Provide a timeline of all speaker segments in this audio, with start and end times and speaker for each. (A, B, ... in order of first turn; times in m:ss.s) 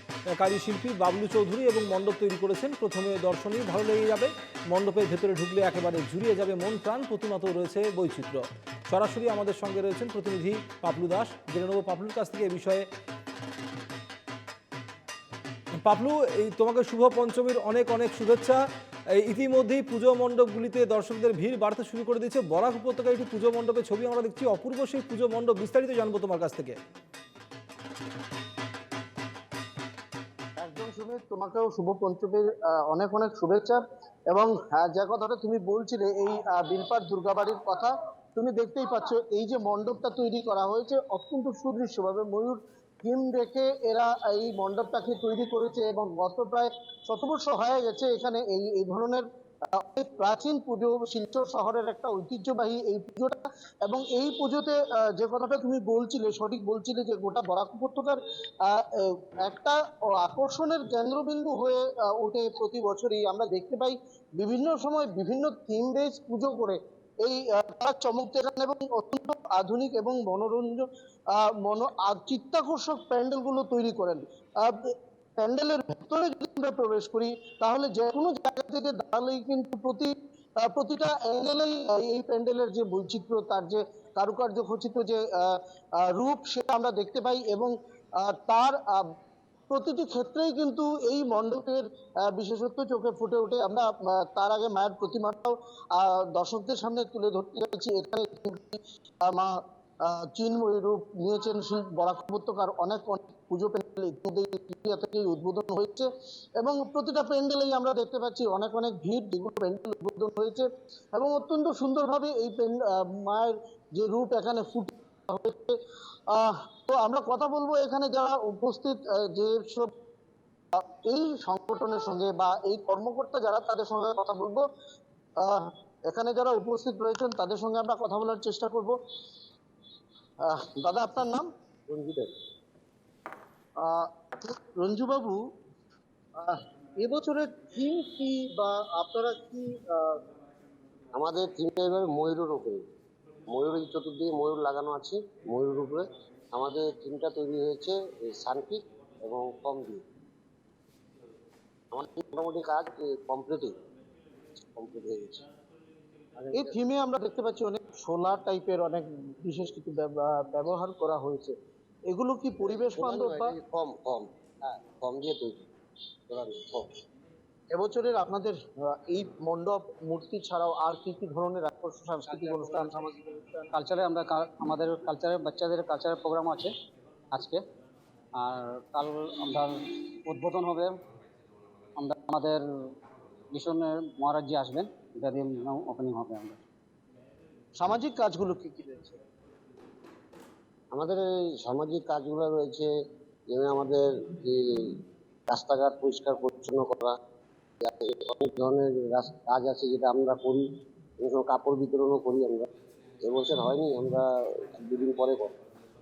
0:00.3-0:12.9 A
0:15.8-0:26.8 A
0:30.6-1:14.8 B
1:15.4-1:29.1 B
1:29.7-1:39.5 B
1:40.0-1:55.7 B
1:56.3-1:59.9 B
2:00.7-2:04.6 B
2:05.4-2:09.0 B
2:10.4-2:11.5 B
2:11.9-2:12.3 C
2:13.8-2:15.4 B
2:16.4-2:20.2 B
2:21.1-2:22.8 C
2:23.5-2:30.0 C
2:31.9-2:33.8 C
2:34.6-2:35.4 C
2:36.4-2:36.7 C
2:36.5-2:41.5 B
2:42.1-2:43.5 B
2:42.6-2:45.7 C
2:46.3-2:46.9 C
2:47.7-2:53.7 B
2:52.3-2:53.0 D
2:53.7-2:56.7 D
2:57.3-2:57.6 D
2:58.4-3:01.0 D
3:02.0-3:02.6 D
3:03.5-3:06.6 D
3:07.8-3:09.2 B
3:10.9-3:12.9 C
3:13.5-3:15.0 C
3:15.5-3:17.1 C
3:17.8-3:20.6 C
3:21.2-3:22.7 C
3:23.2-3:25.6 C